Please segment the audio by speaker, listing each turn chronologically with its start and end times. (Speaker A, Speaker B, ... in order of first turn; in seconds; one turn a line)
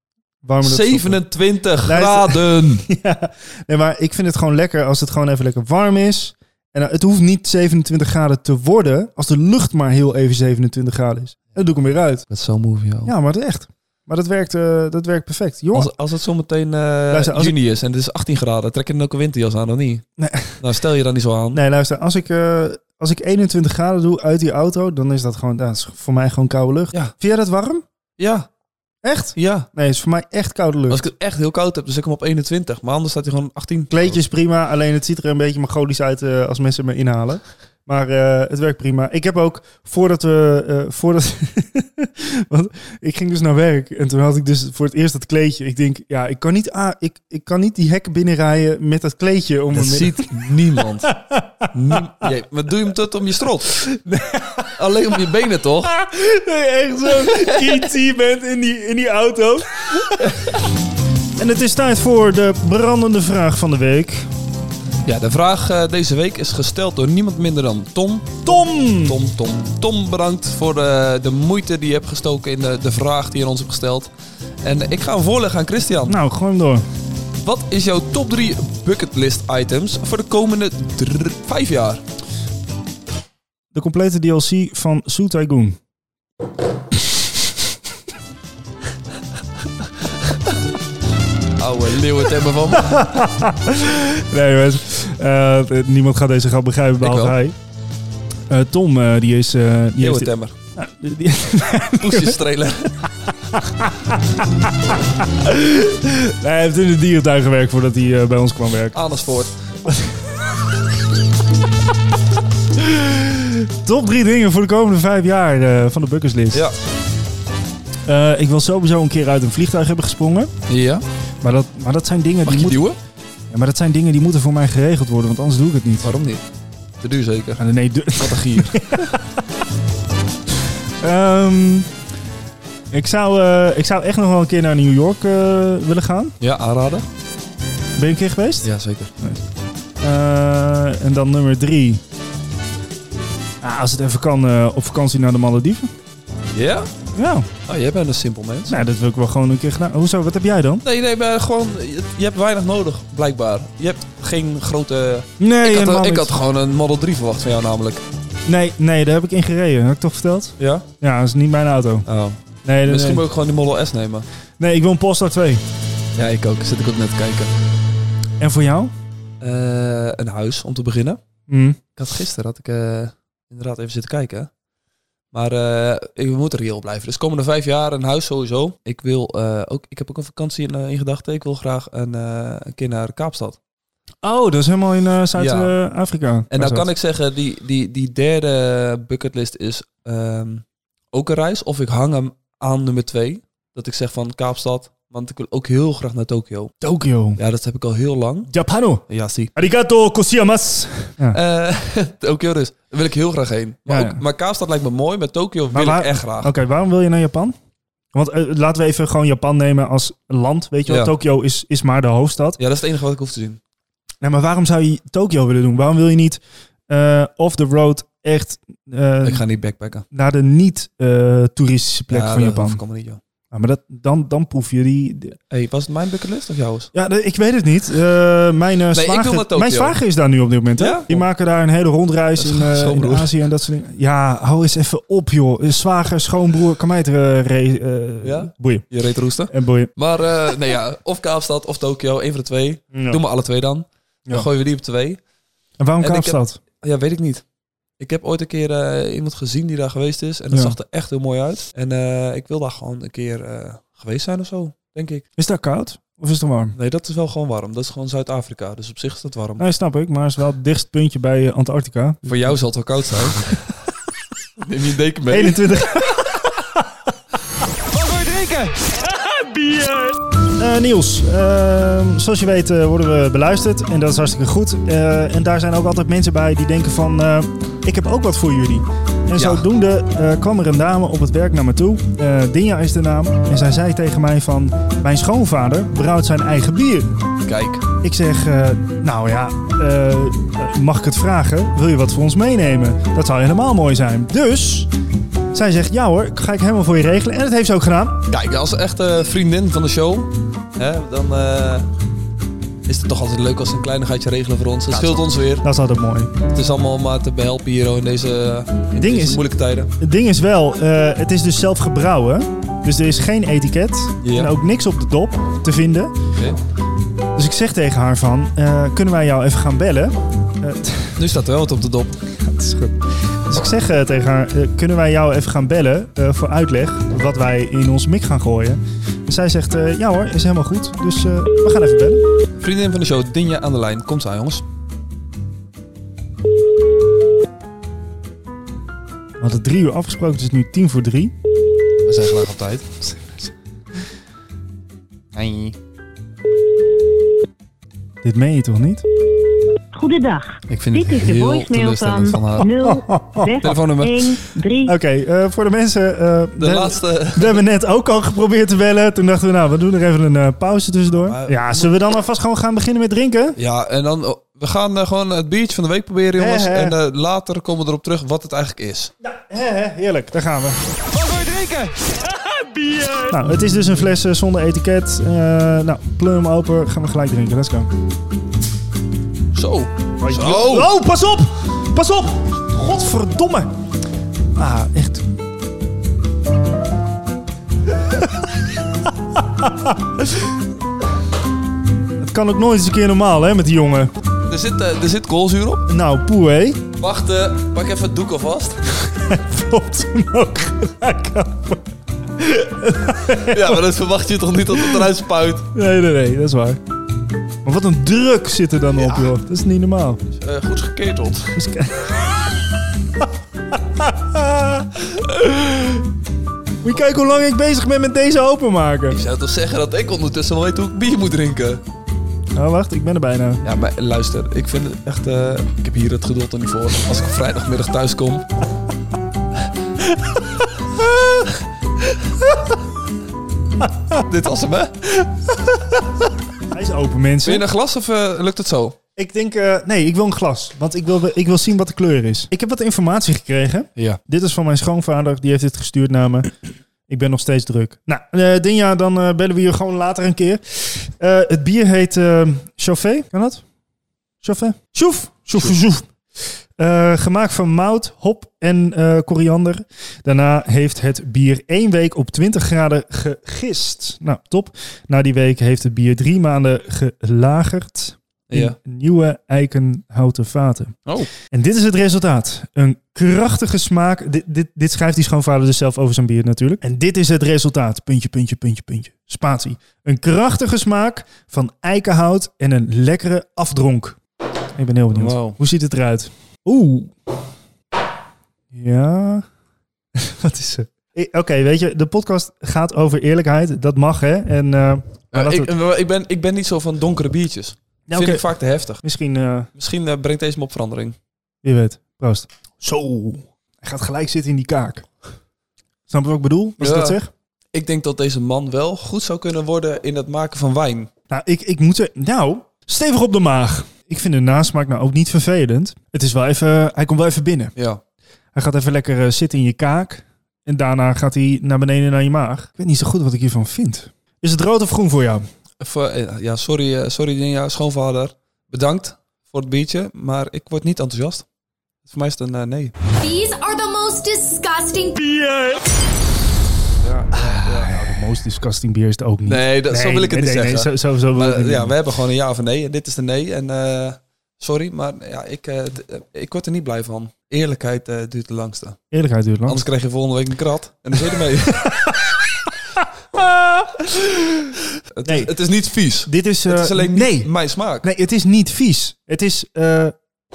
Speaker A: 0.4-1.2
Speaker B: 0.6-2.9
Speaker A: 1.8-12.2
Speaker B: 12.3-13.1
Speaker A: 13.0-15.9
Speaker B: 15.7-20.0
Speaker A: 17.1-17.5
Speaker A: 20.2-20.6
Speaker B: 20.6-21.6
Speaker A: 21.5-27.8
Speaker B: 28.2-28.5
Speaker A: 29.0-31.0
Speaker B: 29.3-29.7
Speaker B: 30.9-34.2
Speaker A: 33.9-52.3
Speaker B: 49.7-51.1
Speaker B: 51.7-53.8
Speaker A: 53.8-54.7
Speaker B: 54.8-55.9
Speaker A: 55.9-60.4
Speaker B: 57.1-57.8
Speaker A: 61.4-64.3
Speaker B: 65.0-74.1
Speaker A: 68.4-69.2
Speaker B: 74.6-76.2
Speaker A: 76.1-76.8
Speaker B: 77.4-82.0
Speaker A: 83.7-85.8
Speaker B: 91.6-93.2
Speaker A: 92.7-97.5
Speaker B: 97.0-97.4
Speaker A: 98.5-102.4
Speaker B: 100.0-100.5
Speaker B: 101.9-102.9
Speaker A: 103.5-109.0
Speaker B: 108.9-109.9
Speaker A: 109.9-110.1
Speaker A: 113.7-116.7
Speaker A: 118.0-120.5
Speaker B: 120.7-121.0
Speaker A: 121.4-122.8
Speaker B: 122.4-123.0
Speaker A: 123.5-126.1
Speaker B: 126.0-126.4
Speaker B: 127.0-127.6
Speaker A: 127.6-129.2
Speaker B: 128.1-129.1
Speaker A: 131.0-131.9
Speaker A: 132.9-136.3
Speaker B: 136.4-137.1
Speaker A: 138.0-138.7
Speaker B: 138.6-139.1
Speaker A: 140.0-142.0
Speaker A: 143.6-145.9
Speaker B: 146.5-146.9
Speaker A: 147.1-147.5
Speaker B: 147.7-148.8
Speaker A: 148.7-150.8
Speaker B: 150.8-158.0
Speaker A: 155.4-156.3
Speaker A: 158.4-162.1
Speaker B: 160.6-160.9
Speaker B: 162.1-164.2
Speaker A: 162.6-163.2
Speaker A: 164.6-165.6
Speaker B: 166.2-167.5
Speaker A: 168.4-168.9
Speaker B: 169.4-171.2
Speaker A: 171.5-171.8
Speaker B: 171.9-174.5
Speaker B: 175.3-183.6
Speaker A: 184.2-186.9
Speaker B: 185.3-185.7
Speaker B: 186.5-196.7
Speaker A: 196.8-197.4
Speaker B: 197.4-198.5
Speaker A: 198.5-201.4
Speaker B: 199.1-199.5
Speaker B: 201.3-206.5
Speaker A: 203.9-204.2
Speaker A: 205.7-207.5
Speaker A: 208.1-212.6
Speaker B: 210.9-211.1
Speaker B: 212.6-213.6
Speaker A: 214.2-219.4
Speaker B: 219.2-220.0
Speaker A: 220.1-222.8
Speaker B: 222.1-223.2
Speaker A: 223.5-225.4
Speaker B: 225.5-226.9
Speaker A: 226.9-238.9
Speaker B: 228.9-230.0
Speaker B: 230.8-231.3
Speaker B: 232.4-233.3
Speaker B: 238.2-245.2
Speaker A: 239.5-239.9
Speaker A: 242.9-243.2
Speaker A: 245.8-246.6
Speaker B: 246.0-247.4
Speaker B: 248.0-255.2
Speaker A: 255.4-256.7
Speaker B: 256.7-259.6
Speaker A: 259.6-262.6
Speaker B: 262.2-263.6
Speaker B: 264.6-265.7
Speaker A: 265.3-266.9
Speaker B: 268.2-268.7
Speaker A: 270.6-287.1
Speaker B: 279.3-279.7
Speaker B: 287.4-287.8
Speaker A: 288.0-294.9
Speaker A: 295.5-298.3
Speaker B: 298.3-301.9
Speaker B: 302.9-305.6
Speaker A: 305.6-306.4
Speaker B: 306.5-309.9
Speaker A: 309.0-309.4
Speaker A: 310.0-316.1
Speaker B: 314.2-314.5
Speaker A: 317.3-321.2
Speaker B: 321.2-322.2
Speaker A: 322.4-332.2
Speaker B: 332.6-334.6
Speaker A: 339.4-341.3
Speaker B: 342.0-342.9
Speaker B: 345.3-345.8
Speaker A: 348.2-349.0
Speaker C: 349.9-354.9
Speaker B: 350.7-352.7
Speaker A: 352.8-353.5
Speaker B: 353.6-354.4
Speaker A: 354.8-363.6
Speaker B: 356.6-357.6
Speaker B: 361.1-361.9
Speaker B: 363.6-369.1
Speaker A: 366.4-367.0
Speaker A: 369.2-370.8
Speaker B: 371.3-371.9
Speaker A: 373.1-377.9
Speaker B: 379.5-380.9
Speaker A: 380.2-383.7
Speaker A: 384.6-385.2
Speaker A: 388.1-388.5
Speaker A: 389.0-390.3
Speaker A: 392.2-394.1
Speaker B: 394.5-395.9
Speaker A: 395.9-396.9
Speaker B: 397.0-398.8
Speaker A: 399.1-401.8
Speaker A: 402.4-403.8
Speaker B: 403.2-405.7
Speaker A: 404.7-405.0
Speaker A: 405.7-406.8
Speaker A: 407.6-410.2
Speaker B: 409.0-409.3
Speaker B: 410.3-411.6
Speaker A: 411.5-412.3
Speaker A: 413.2-415.8
Speaker A: 416.8-419.2
Speaker B: 419.1-421.8
Speaker A: 422.5-423.6
Speaker B: 423.6-428.5
Speaker A: 431.1-431.4
Speaker B: 434.1-435.6
Speaker A: 436.7-437.6
Speaker B: 437.4-439.0
Speaker A: 439.1-446.5
Speaker A: 447.1-453.6
Speaker A: 454.4-471.0
Speaker B: 468.5-468.8
Speaker B: 471.1-471.3
Speaker A: 471.5-484.2
Speaker A: 484.7-487.1
Speaker B: 485.1-485.6
Speaker A: 488.7-489.4
Speaker A: 490.2-495.7
Speaker B: 495.3-499.0
Speaker A: 498.1-498.4
Speaker A: 499.0-499.7
Speaker B: 499.7-501.1
Speaker A: 501.6-505.1
Speaker A: 506.1-507.3
Speaker B: 506.8-507.2
Speaker B: 507.7-511.1
Speaker A: 511.3-517.7
Speaker B: 517.8-518.0
Speaker A: 518.5-525.4
Speaker B: 525.8-531.4
Speaker B: 532.0-532.9
Speaker D: 533.2-535.5
Speaker B: 537.0-538.0
Speaker A: 537.3-541.9
Speaker B: 539.5-549.0
Speaker A: 549.1-549.8
Speaker B: 549.6-552.1
Speaker A: 551.8-552.2
Speaker A: 552.9-554.7
Speaker B: 555.1-558.1
Speaker A: 555.2-555.5
Speaker A: 556.2-557.5
Speaker A: 558.0-560.1